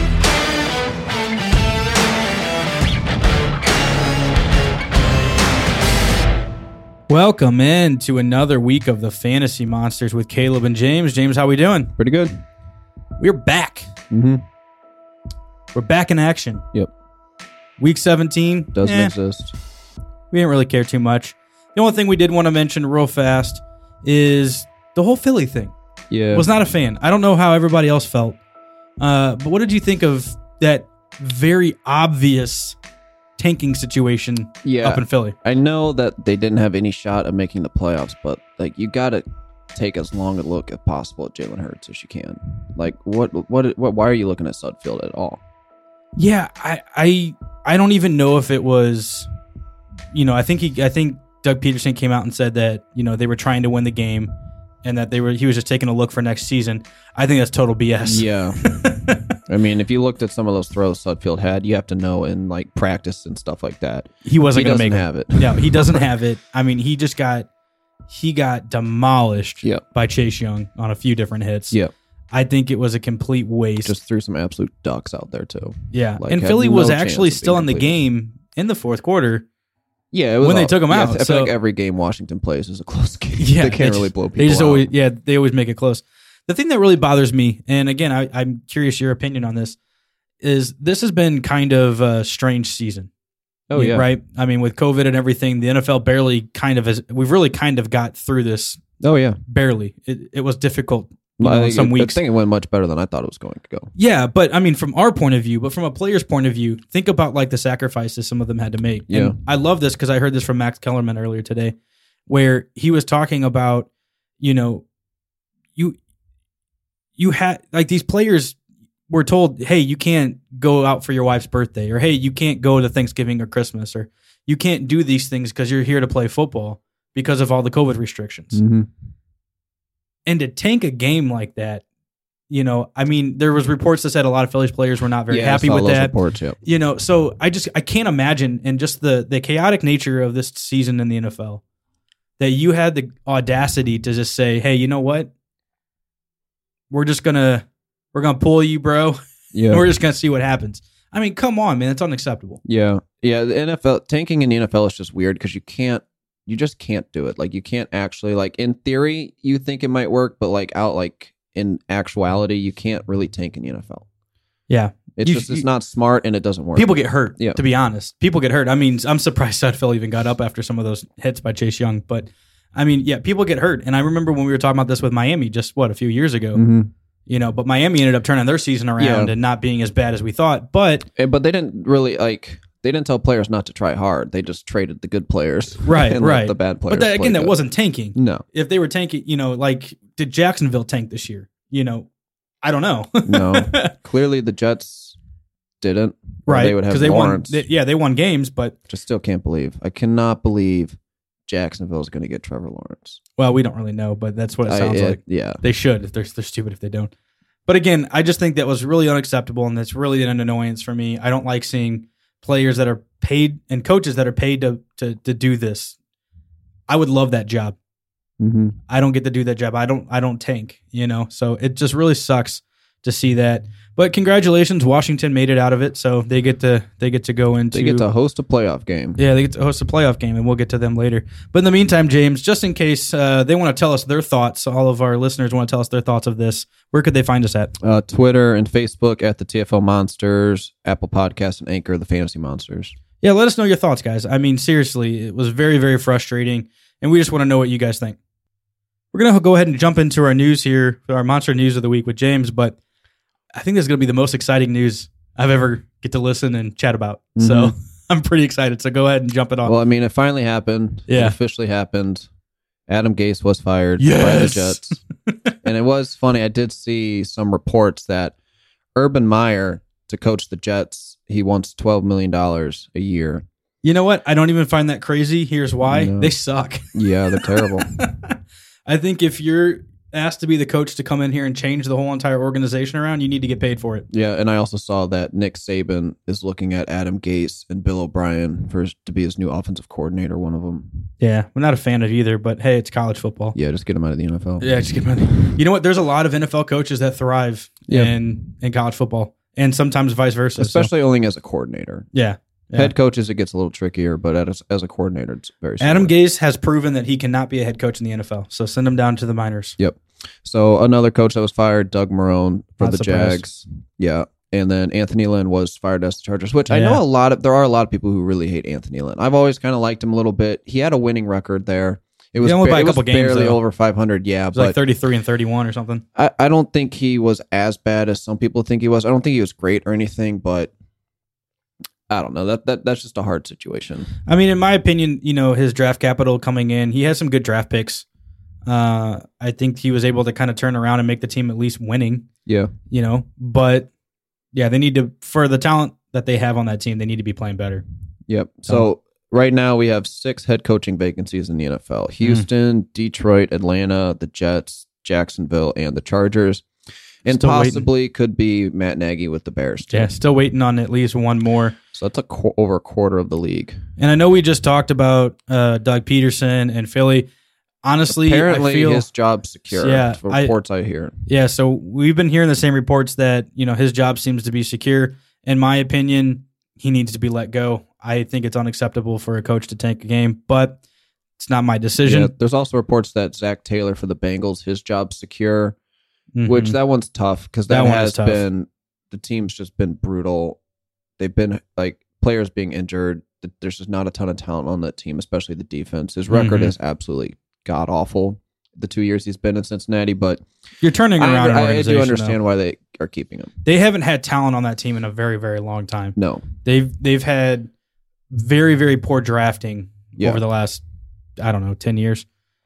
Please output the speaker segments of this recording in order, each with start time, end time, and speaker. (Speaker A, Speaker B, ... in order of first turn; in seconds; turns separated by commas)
Speaker A: 7.1-11.9, Speaker B: 12.0-12.4, Speaker A: 13.2-13.9, Speaker B: 14.1-14.4, Speaker A: 15.7-16.6, Speaker A: 17.8-19.1, Speaker B: 18.7-19.6, Speaker A: 20.3-25.7, Speaker B: 26.1-26.5, Speaker A: 26.3-28.4, Speaker A: 29.0-32.8, Speaker A: 33.4-35.4, Speaker B: 34.6-45.4, Speaker A: 46.2-49.3, Speaker A: 50.1-54.3, Speaker A: 54.8-59.2, Speaker B: 58.0-58.6, Speaker B: 59.5-66.1, Speaker A: 64.2-67.5, Speaker A: 68.1-71.8, Speaker A: 72.3-73.9, Speaker B: 73.8-78.0, Speaker A: 75.9-79.5, Speaker B: 80.1-84.9, Speaker A: 80.4-81.5, Speaker A: 83.4-89.8, Speaker A: 90.4-93.1, Speaker B: 93.7-94.1, Speaker A: 93.7-98.8, Speaker B: 99.0-99.4, Speaker A: 99.5-102.2, Speaker B: 101.4-103.9, Speaker A: 104.0-111.8, Speaker B: 109.1-109.4, Speaker A: 112.3-113.9, Speaker A: 114.4-114.8, Speaker A: 117.2-118.6, Speaker A: 119.1-128.6, Speaker B: 128.5-128.9, Speaker A: 130.3-131.8, Speaker A: 132.5-141.6, Speaker B: 135.3-136.6, Speaker A: 142.4-145.3, Speaker A: 146.9-152.6, Speaker B: 149.5-149.9, Speaker B: 152.7-164.1, Speaker A: 164.7-165.7, Speaker B: 165.2-167.6, Speaker A: 166.8-176.6, Speaker B: 176.5-176.9, Speaker A: 177.3-181.1, Speaker B: 179.0-179.3, Speaker B: 181.2-187.6, Speaker A: 185.8-192.1, Speaker B: 188.2-188.4, Speaker A: 192.6-193.9, Speaker B: 193.3-195.2, Speaker B: 195.8-197.6, Speaker A: 196.5-198.8, Speaker B: 198.9-203.2, Speaker A: 203.4-207.1, Speaker B: 204.7-205.6, Speaker A: 207.7-216.0, Speaker A: 216.9-217.8, Speaker B: 218.4-218.8, Speaker A: 218.9-228.1, Speaker B: 227.7-229.2, Speaker A: 229.2-237.7, Speaker B: 237.8-242.9, Speaker A: 243.2-248.2, Speaker A: 249.1-252.8, Speaker A: 253.6-259.8, Speaker B: 257.4-257.7, Speaker B: 259.6-262.3, Speaker A: 261.1-261.4, Speaker B: 262.9-265.0, Speaker A: 264.0-265.5, Speaker B: 265.6-268.3, Speaker B: 268.9-273.4, Speaker A: 273.8-284.1, Speaker B: 275.9-276.3, Speaker B: 276.9-277.9, Speaker B: 284.1-291.1, Speaker A: 291.2-293.6, Speaker B: 293.6-294.7, Speaker A: 294.6-300.9, Speaker B: 297.9-298.1, Speaker B: 300.6-302.1, Speaker A: 302.1-302.9, Speaker B: 302.7-306.1, Speaker A: 305.8-309.8, Speaker B: 309.8-324.8, Speaker A: 312.8-313.4, Speaker A: 316.7-317.0, Speaker A: 322.4-323.6, Speaker A: 324.5-326.0, Speaker B: 326.2-330.7, Speaker B: 332.1-334.1, Speaker A: 334.3-338.1, Speaker A: 338.7-342.3, Speaker B: 342.5-342.7, Speaker A: 342.9-343.9, Speaker A: 344.5-347.8, Speaker B: 348.3-356.7, Speaker B: 357.2-360.1, Speaker A: 357.3-357.9, Speaker A: 359.9-361.8, Speaker B: 361.9-363.8, Speaker A: 364.0-367.3, Speaker A: 367.8-369.1, Speaker B: 368.1-371.1, Speaker A: 369.7-370.5, Speaker A: 371.3-380.8, Speaker A: 381.4-382.3, Speaker B: 382.1-385.8, Speaker A: 386.4-386.8, Speaker B: 386.4-390.6, Speaker A: 387.7-388.4, Speaker B: 391.2-400.4, Speaker A: 396.3-396.7, Speaker A: 400.8-402.4, Speaker B: 401.2-403.5, Speaker A: 403.6-407.7, Speaker B: 406.2-406.5, Speaker A: 408.3-410.8, Speaker B: 410.2-410.4, Speaker A: 411.4-412.2